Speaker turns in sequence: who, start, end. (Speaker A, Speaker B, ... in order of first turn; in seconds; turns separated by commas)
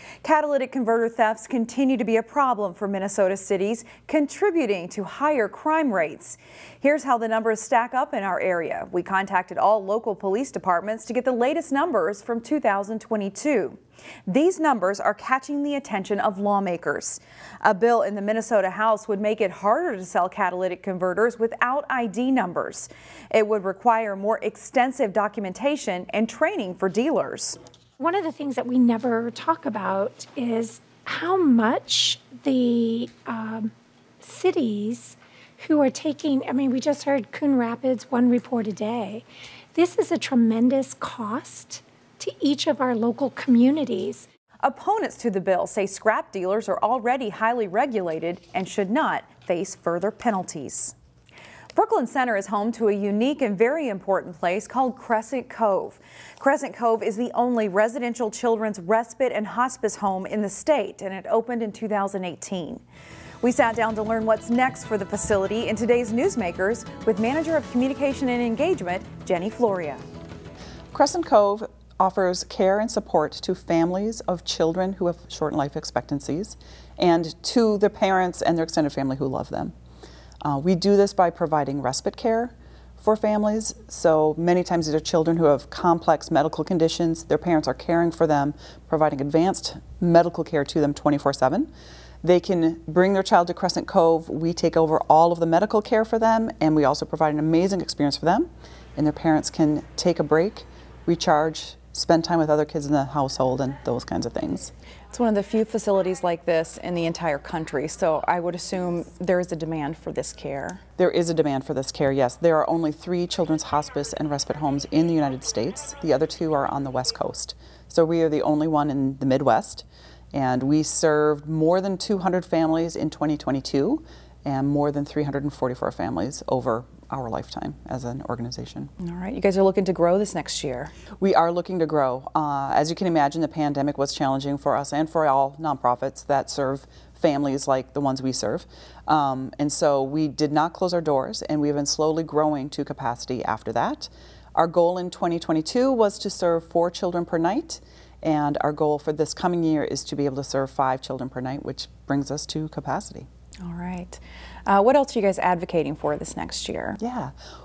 Speaker A: 0.2-27.6, Speaker B: 28.0-44.2, Speaker A: 44.6-50.9, Speaker A: 51.8-62.8, Speaker A: 63.4-70.0, Speaker C: 70.9-79.7, Speaker C: 80.4-91.7, Speaker C: 92.2-104.7, Speaker A: 105.1-110.8, Speaker C: 111.0-128.9, Speaker A: 129.0-130.9, Speaker C: 131.2-153.3, Speaker A: 153.7-157.0, Speaker C: 157.0-157.3